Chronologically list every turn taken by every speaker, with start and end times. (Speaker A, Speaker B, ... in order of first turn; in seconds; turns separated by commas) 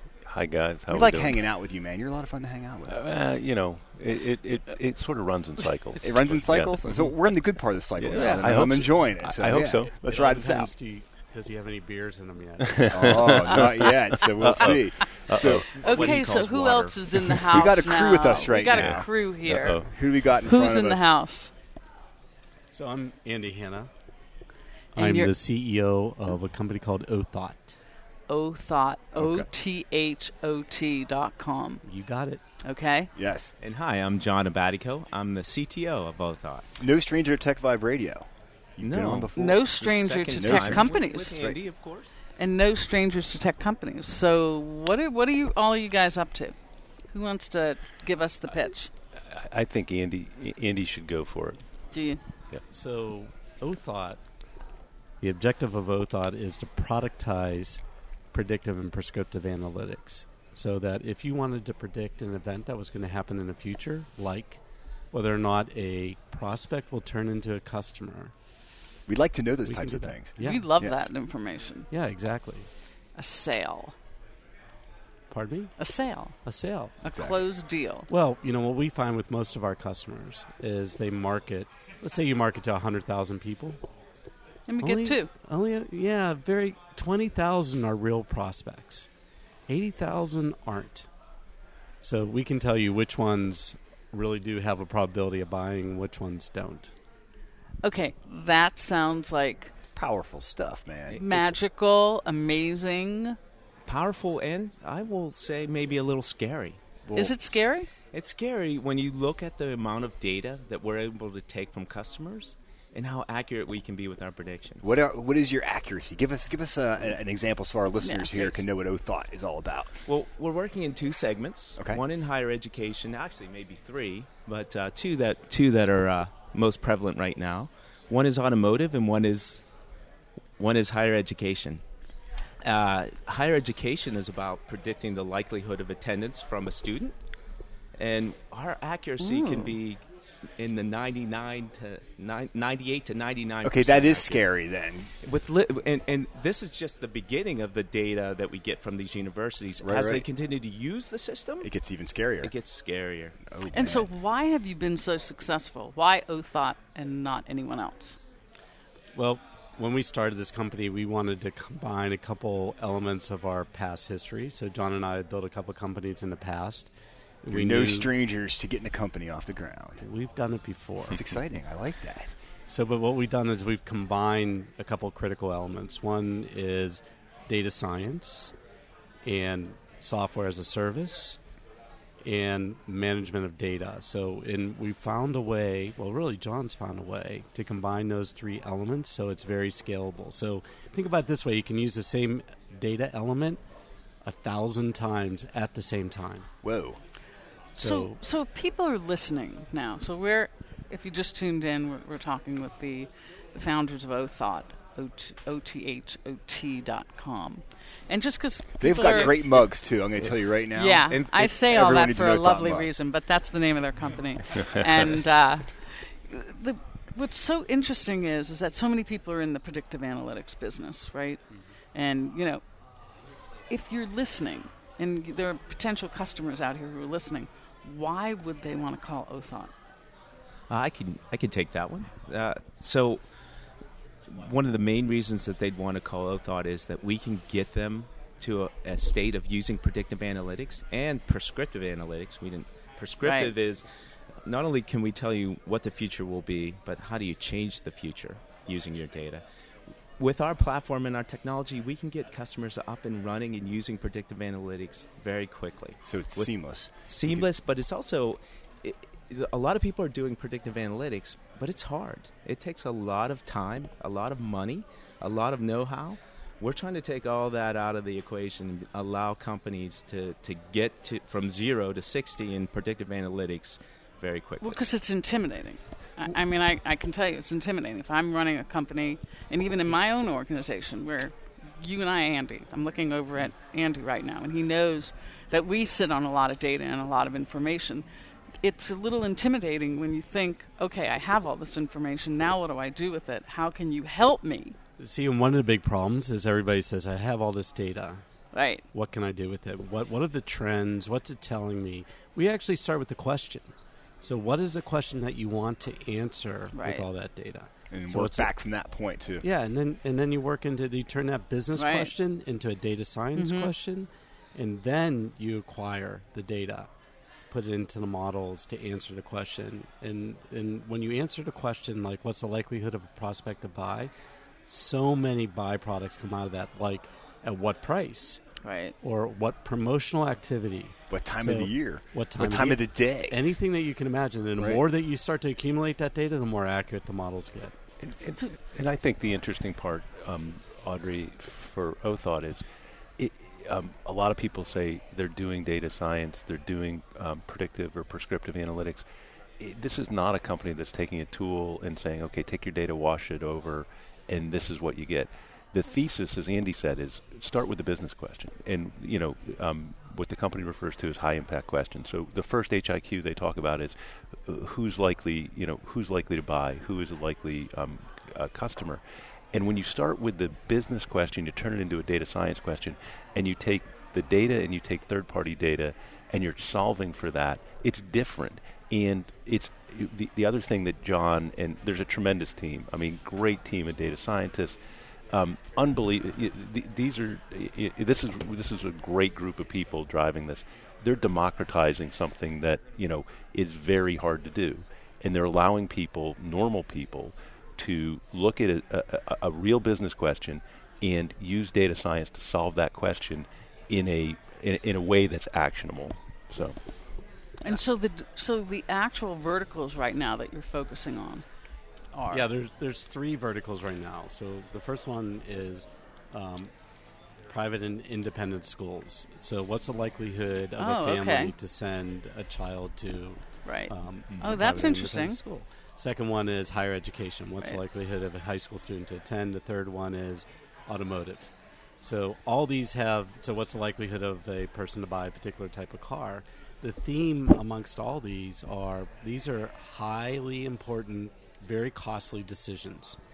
Speaker A: 0.3-1.4, Speaker B: 0.9-3.0, Speaker A: 2.8-7.1, Speaker B: 6.0-10.7, Speaker A: 8.0-9.9, Speaker C: 8.1-8.4, Speaker D: 9.9-13.4, Speaker A: 12.6-16.1, Speaker B: 12.9-15.8, Speaker D: 15.4-17.0, Speaker C: 15.8-21.5, Speaker B: 17.4-19.1, Speaker A: 18.6-19.9, Speaker B: 19.9-21.1, Speaker D: 22.7-23.9, Speaker D: 24.9-27.8, Speaker C: 25.0-25.3, Speaker C: 28.3-31.8, Speaker B: 29.1-29.5, Speaker D: 31.8-32.4, Speaker C: 32.6-33.1, Speaker B: 33.1-33.5, Speaker E: 33.6-36.6, Speaker B: 36.8-39.6, Speaker E: 38.8-42.2, Speaker C: 39.4-41.5, Speaker B: 40.3-41.5, Speaker C: 42.3-46.5, Speaker C: 47.1-48.9, Speaker A: 49.3-51.6, Speaker C: 51.9-52.2, Speaker D: 52.7-54.2, Speaker D: 55.2-57.8, Speaker D: 58.3-64.6, Speaker D: 65.1-68.3, Speaker B: 69.1-71.1, Speaker D: 69.7-70.7, Speaker C: 70.4-71.9, Speaker D: 71.9-72.7, Speaker C: 73.2-73.9, Speaker D: 75.3-75.7, Speaker C: 75.8-76.4, Speaker D: 76.4-77.0, Speaker C: 77.0-78.1, Speaker B: 77.1-77.4, Speaker D: 78.1-83.8, Speaker C: 84.7-85.3, Speaker D: 84.8-89.1, Speaker D: 89.7-91.1, Speaker D: 92.0-96.9, Speaker C: 97.8-99.8, Speaker B: 99.9-101.5, Speaker C: 101.1-103.4, Speaker E: 103.8-106.8, Speaker B: 107.0-107.5, Speaker C: 107.1-107.9, Speaker E: 108.1-115.0, Speaker B: 114.8-120.0, Speaker C: 118.0-118.6, Speaker E: 120.1-129.6, Speaker E: 130.6-131.8, Speaker E: 132.6-137.2, Speaker E: 138.0-140.0, Speaker C: 139.2-139.8, Speaker E: 140.6-144.4, Speaker B: 143.6-145.1, Speaker E: 145.2-151.7, Speaker B: 149.8-150.2, Speaker B: 151.6-152.5, Speaker E: 152.4-153.4, Speaker B: 153.4-154.1, Speaker C: 153.7-158.2, Speaker D: 159.1-166.9, Speaker D: 167.4-168.1, Speaker B: 167.5-170.0, Speaker D: 170.0-171.3, Speaker B: 171.1-172.3, Speaker D: 172.7-178.5, Speaker D: 179.2-181.4, Speaker D: 182.2-193.6, Speaker D: 194.2-196.5, Speaker B: 196.6-197.0, Speaker C: 197.7-209.6, Speaker D: 197.8-198.2, Speaker B: 208.8-212.9, Speaker C: 210.7-221.4, Speaker E: 211.1-211.5, Speaker C: 221.9-222.6, Speaker C: 223.7-229.7, Speaker E: 230.7-233.2, Speaker E: 234.3-243.8, Speaker C: 243.2-243.5, Speaker E: 244.4-249.4, Speaker E: 250.2-256.5, Speaker B: 256.0-257.5, Speaker E: 257.0-274.8, Speaker C: 274.6-288.1, Speaker C: 288.6-294.8, Speaker D: 295.0-298.2, Speaker C: 298.5-298.8, Speaker D: 298.9-303.7, Speaker D: 304.2-308.5, Speaker C: 306.7-307.1, Speaker B: 307.9-309.4, Speaker D: 309.4-316.9, Speaker C: 311.8-312.1, Speaker C: 313.4-313.7, Speaker D: 317.5-324.1, Speaker D: 324.7-328.4, Speaker C: 328.6-328.9, Speaker D: 329.0-337.8, Speaker B: 331.1-333.4, Speaker B: 334.6-334.8, Speaker A: 338.0-342.6, Speaker A: 343.2-349.1, Speaker A: 349.6-369.0, Speaker A: 369.5-384.8, Speaker A: 385.3-406.8, Speaker C: 407.6-411.4, Speaker C: 412.1-412.5, Speaker D: 412.3-416.7, Speaker D: 417.5-443.2, Speaker C: 420.8-421.5, Speaker C: 423.6-425.4, Speaker B: 424.3-424.6